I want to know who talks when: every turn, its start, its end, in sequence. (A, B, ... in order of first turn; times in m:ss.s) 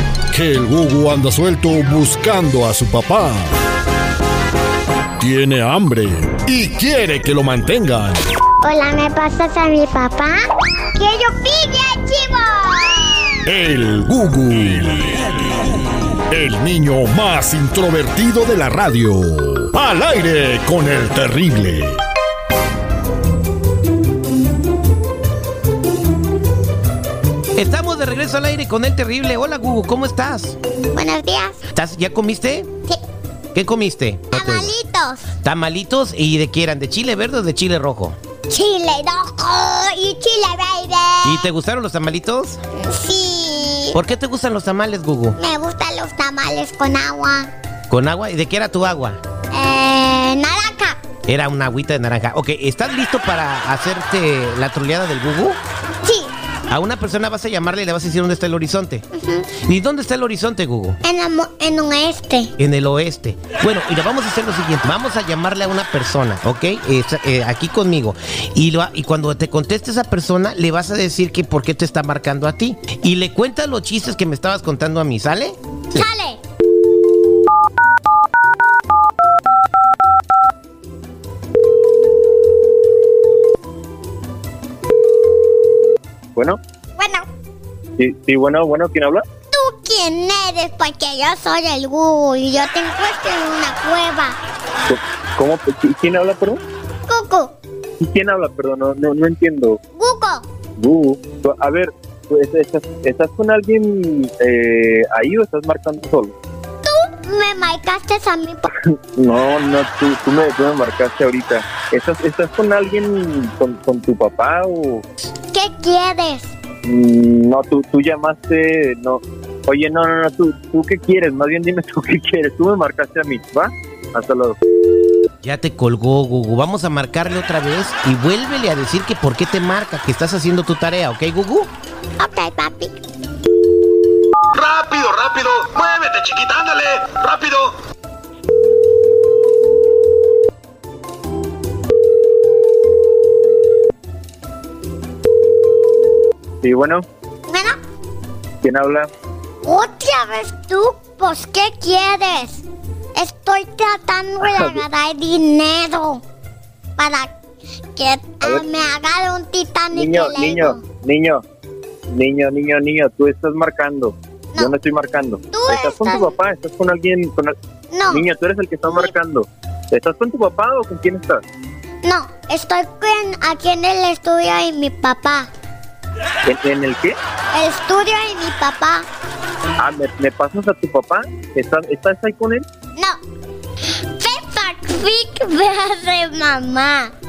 0:00.3-0:03.5 A
0:05.2-0:08.2 A
0:08.6-0:10.4 B
0:10.9-0:13.4 B
0:13.5-0:15.7 A
0:16.3-0:22.0 A
0:27.6-0:30.6 C
0:30.9-0:31.6 B
0:31.7-0:32.7 C
0:33.5-0:34.7 C
0:34.3-0:35.3 B
0:35.4-0:38.2 C
0:38.5-0:41.4 B
0:41.2-0:42.6 C
0:42.8-0:44.0 B
0:43.9-0:45.4 C
0:45.4-0:47.5 B
0:47.9-0:49.2 C
0:49.5-0:51.0 B
0:51.3-0:55.6 C
0:56.0-0:56.3 B
0:56.7-1:01.0 C
0:59.1-0:59.5 B
1:01.0-1:02.5 B
1:02.6-1:16.0 C
1:15.9-1:16.4 B
1:27.0-1:27.3 B
1:28.0-1:29.2 D
1:29.5-1:34.4 B
1:34.9-1:36.6 D
1:37.1-1:37.5 B
1:38.0-1:39.8 D
1:40.0-1:40.5 B
1:40.8-1:46.4 D
1:46.8-1:48.7 B
1:49.2-1:55.0 D
1:55.5-1:56.5 B
1:56.8-2:04.6 D
2:05.4-2:11.7 C
2:12.2-2:13.0 B
2:14.6-2:17.8 E
2:26.6-2:27.0 D
2:27.5-2:27.8 B
2:28.6-2:29.1 D
2:29.6-2:32.6 B
2:33.2-2:36.2 B
2:34.4-2:34.8 D
2:37.0-2:37.3 B
2:38.0-2:40.8 B
2:39.9-2:41.4 D
2:42.1-2:47.6 D
2:45.5-2:46.3 B
2:47.9-2:48.2 B
2:48.1-2:51.4 D
2:52.0-2:55.5 B
2:56.5-2:57.2 D
2:57.5-2:59.1 B
2:59.8-3:02.6 D
3:04.2-3:07.1 B